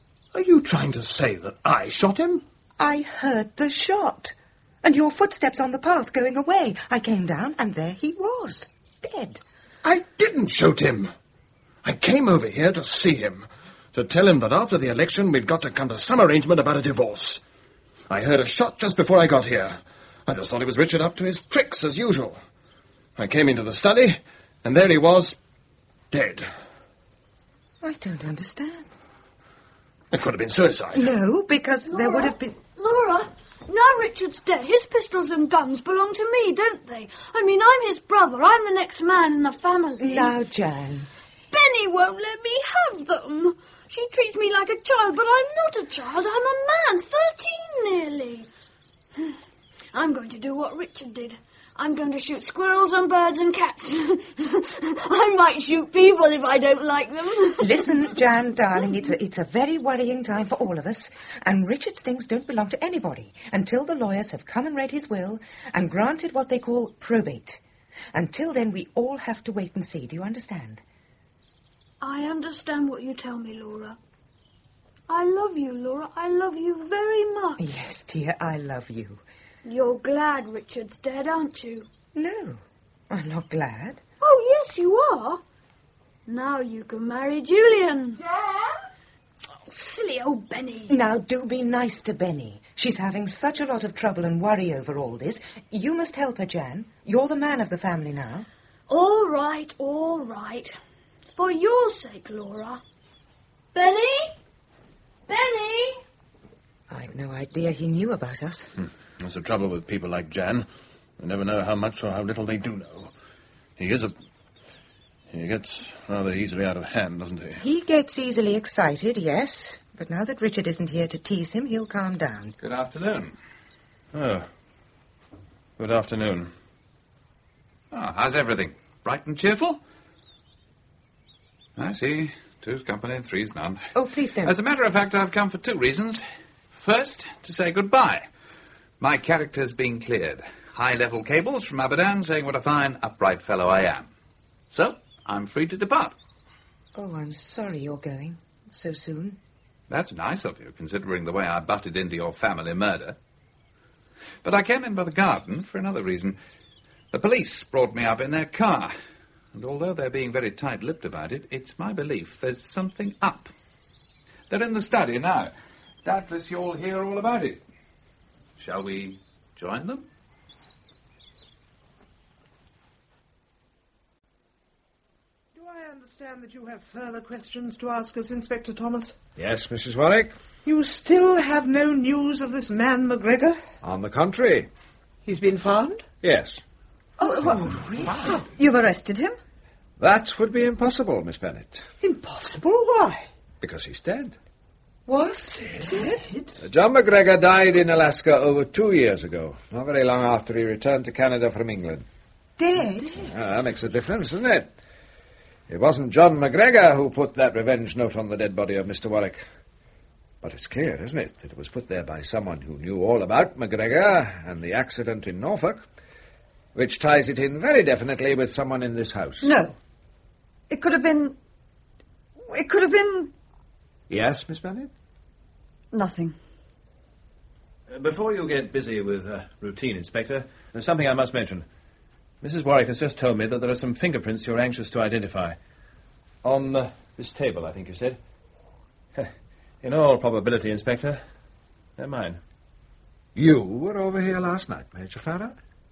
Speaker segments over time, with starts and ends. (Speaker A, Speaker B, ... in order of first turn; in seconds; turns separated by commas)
Speaker A: 0.3-2.4, Speaker B: 2.8-9.4, Speaker A: 9.8-11.1, Speaker A: 11.8-17.4, Speaker A: 18.1-22.4, Speaker A: 23.1-25.4, Speaker A: 26.1-26.5, Speaker B: 27.8-28.9, Speaker A: 30.1-31.1, Speaker B: 30.9-32.6, Speaker C: 31.9-40.3, Speaker B: 40.0-41.1, Speaker C: 41.5-48.5, Speaker C: 49.9-57.9, Speaker B: 57.6-67.6, Speaker B: 68.1-70.8, Speaker C: 72.0-74.0, Speaker C: 75.1-77.6, Speaker B: 77.6-79.2, Speaker C: 79.6-81.9, Speaker B: 82.1-84.0, Speaker C: 84.2-85.4, Speaker C: 86.3-88.2, Speaker D: 88.3-88.6, Speaker C: 89.6-91.0, Speaker B: 90.9-98.5, Speaker C: 98.9-100.7, Speaker C: 101.3-102.8, Speaker C: 103.7-104.3, Speaker C: 105.3-106.0, Speaker B: 106.9-108.7, Speaker A: 109.2-110.7, Speaker A: 111.2-113.1, Speaker A: 113.8-114.1, Speaker A: 115.3-117.6, Speaker B: 117.6-122.5, Speaker E: 122.6-123.3, Speaker A: 124.1-124.5, Speaker A: 125.8-126.5, Speaker E: 127.9-129.8, Speaker E: 131.8-133.8, Speaker B: 133.9-134.5, Speaker E: 134.4-138.3, Speaker E: 139.0-144.1, Speaker E: 144.7-146.1, Speaker B: 146.9-149.4, Speaker E: 149.9-153.2, Speaker E: 154.4-156.4, Speaker E: 157.1-158.9, Speaker E: 159.5-163.5, Speaker E: 164.5-165.5, Speaker E: 166.0-167.6, Speaker E: 168.6-170.1, Speaker F: 175.5-179.2, Speaker G: 179.3-180.3, Speaker F: 180.6-183.6, Speaker G: 183.8-184.7, Speaker F: 185.2-186.1, Speaker G: 186.2-186.6, Speaker B: 187.2-188.4, Speaker D: 188.5-189.3, Speaker G: 190.0-191.8, Speaker F: 192.0-193.2, Speaker G: 193.6-194.3, Speaker B: 195.1-196.1, Speaker F: 196.0-196.4, Speaker G: 196.6-202.1, Speaker B: 202.6-203.2, Speaker G: 203.2-204.7, Speaker G: 205.7-209.4, Speaker G: 210.4-215.9, Speaker G: 216.7-219.5, Speaker D: 219.4-219.8, Speaker D: 220.7-221.3, Speaker D: 222.5-223.3, Speaker G: 224.1-224.9, Speaker D: 225.9-226.3, Speaker A: 227.9-231.7, Speaker A: 232.4-235.6, Speaker A: 236.4-238.2, Speaker A: 239.8-241.2, Speaker A: 242.0-242.4, Speaker G: 243.3-245.6